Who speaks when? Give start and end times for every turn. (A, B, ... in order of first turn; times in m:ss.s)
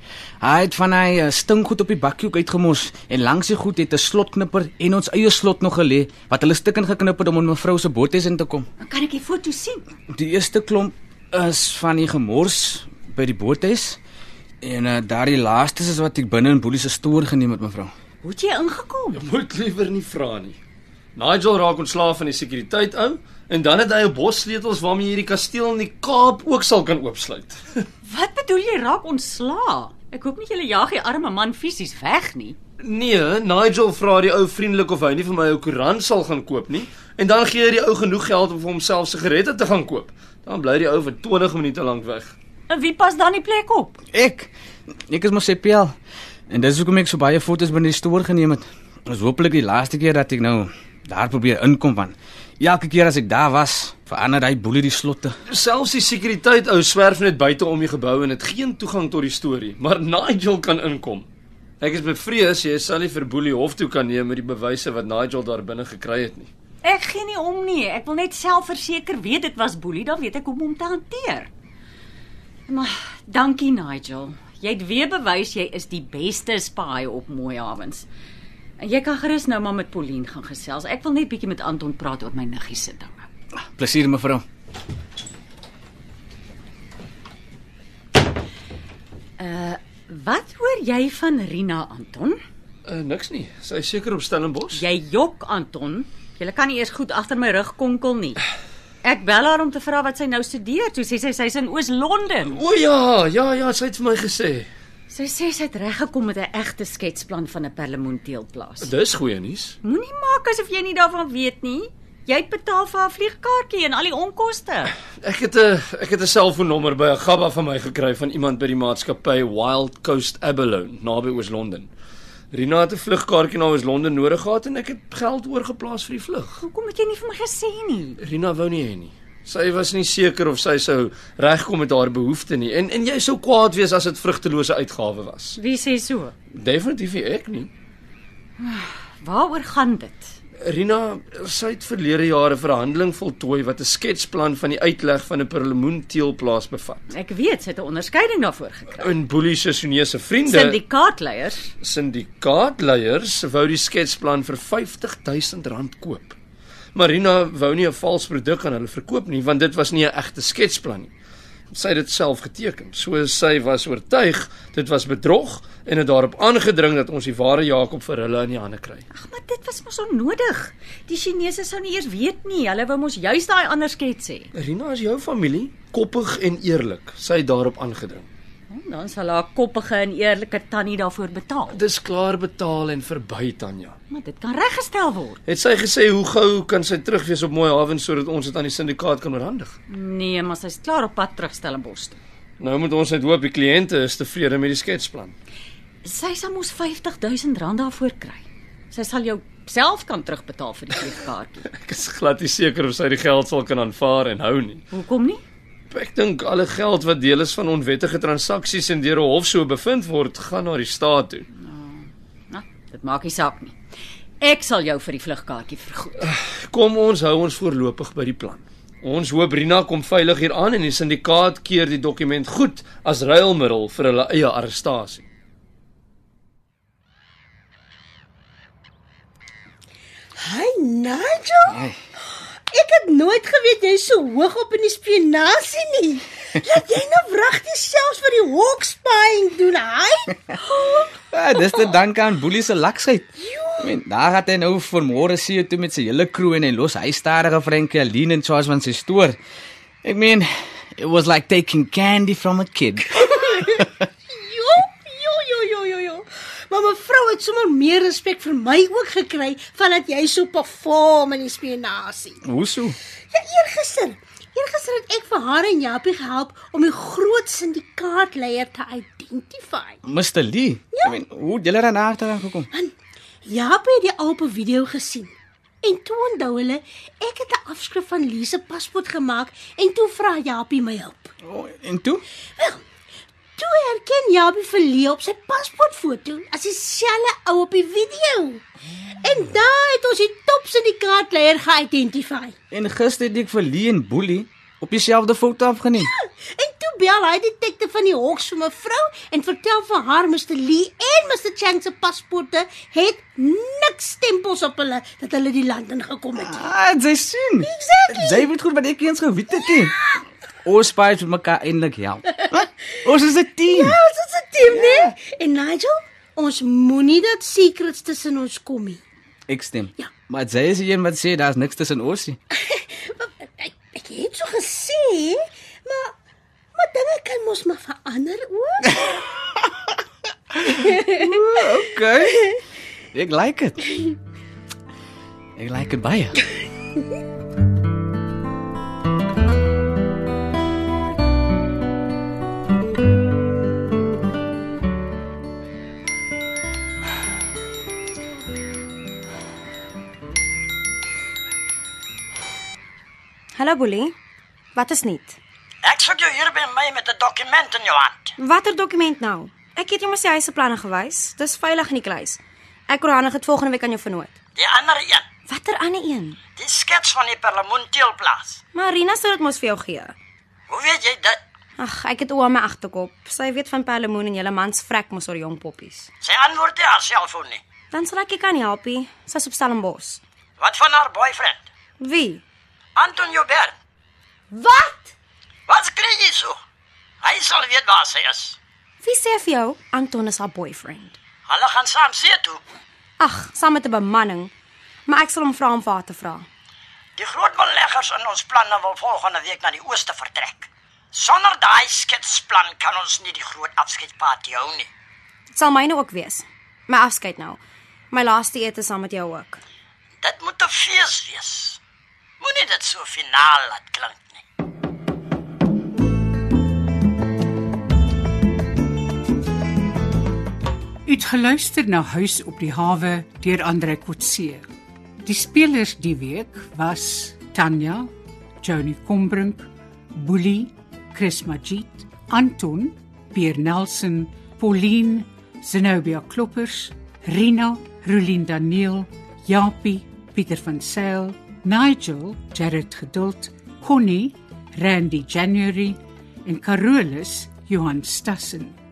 0:00.4-0:08.7 A
0:08.8-0:09.8 B
0:10.1-0:14.0 A
0:14.6-0:17.9 A
0:18.2-0:19.2 B
0:19.2-0:20.6 C
0:21.2-0:27.9 C
0:28.1-0:32.6 B
0:32.8-0:42.3 C
0:42.7-0:44.0 B
0:44.1-0:44.5 A
0:45.0-0:45.9 A
0:46.5-0:55.4 A
0:55.5-1:01.3 C
1:01.8-1:06.5 C
1:06.8-1:11.5 B
1:12.7-1:18.0 B
1:18.8-1:23.3 B
1:23.8-1:24.4 A
1:29.4-1:32.4 B
1:32.9-1:34.8 C
1:34.8-1:38.4 B
1:39.0-1:42.6 B
1:42.5-1:44.7 C
1:45.1-1:48.9 B
1:48.8-1:49.8 C
1:49.8-1:54.9 B
1:55.0-2:01.9 C
2:02.5-2:06.6 C
2:06.6-2:08.2 B
2:08.2-2:15.6 C
2:15.6-2:16.3 B
2:16.5-2:17.7 C
2:18.6-2:20.3 B
2:20.6-2:27.1 C
2:27.1-2:29.1 B
2:29.0-2:30.8 C
2:30.5-2:31.7 B
2:31.8-2:36.4 C
2:37.0-2:41.1 C
2:41.7-2:49.0 C
2:49.1-2:54.5 B
2:54.6-2:58.3 C
2:58.7-3:01.8 B
3:01.7-3:04.0 C
3:04.1-3:05.4 B
3:05.5-3:09.8 C
3:09.9-3:12.2 B
3:12.6-3:15.4 C
3:16.0-3:21.7 B
3:21.7-3:24.8 C
3:24.9-3:25.4 B
3:25.9-3:31.5 C
3:31.6-3:33.7 B
3:34.4-3:36.2 B
3:36.2-3:45.3 C
3:50.4-4:01.1 D
4:01.3-4:09.4 A
4:03.4-4:03.9 D
4:10.0-4:13.3 A
4:13.2-4:22.4 D
4:22.4-4:23.0 A
4:23.3-4:30.0 D
4:30.0-4:32.7 A
4:32.7-4:41.3 D
4:41.4-4:42.2 A
4:42.6-4:42.8 D
4:43.6-4:48.6 D
4:49.2-4:52.5 D
4:52.7-4:56.1 A
4:56.0-5:06.6 D
5:06.4-5:10.0 A
5:07.6-5:08.4 D
5:10.6-5:14.0 A
5:13.7-5:19.0 D
5:14.7-5:15.1 A
5:19.5-5:22.4 A
5:22.6-5:26.1 D
5:26.8-5:29.2 D
5:30.6-5:32.6 A
5:30.7-5:31.3 D
5:33.1-5:34.0 A
5:35.6-5:36.4 A
5:53.6-5:54.1 E
5:54.8-5:55.4 E
5:55.8-5:58.3 F
5:58.4-6:04.4 E
6:04.6-6:05.2 F
6:05.5-6:06.4 E
6:06.6-6:08.6 F
6:08.7-6:10.2 E
6:10.7-6:11.4 F
6:11.8-6:16.1 E
6:16.2-6:17.6 F
6:17.9-6:20.2 E
6:20.6-6:21.6 F
6:22.0-6:22.4 E
6:23.0-6:23.7 F
6:24.5-6:25.1 E
6:25.7-6:26.6 F
6:27.2-6:28.6 F
6:29.0-6:31.2 E
6:31.5-6:32.6 F
6:33.2-6:34.5 E
6:35.1-6:36.4 E
6:37.2-6:44.9 F
6:45.5-6:47.6 E
6:48.1-6:49.6 E
6:50.2-6:51.8 F
6:52.4-6:54.2 F
7:01.0-7:04.6 G
7:05.2-7:08.1 G
7:08.6-7:28.8 G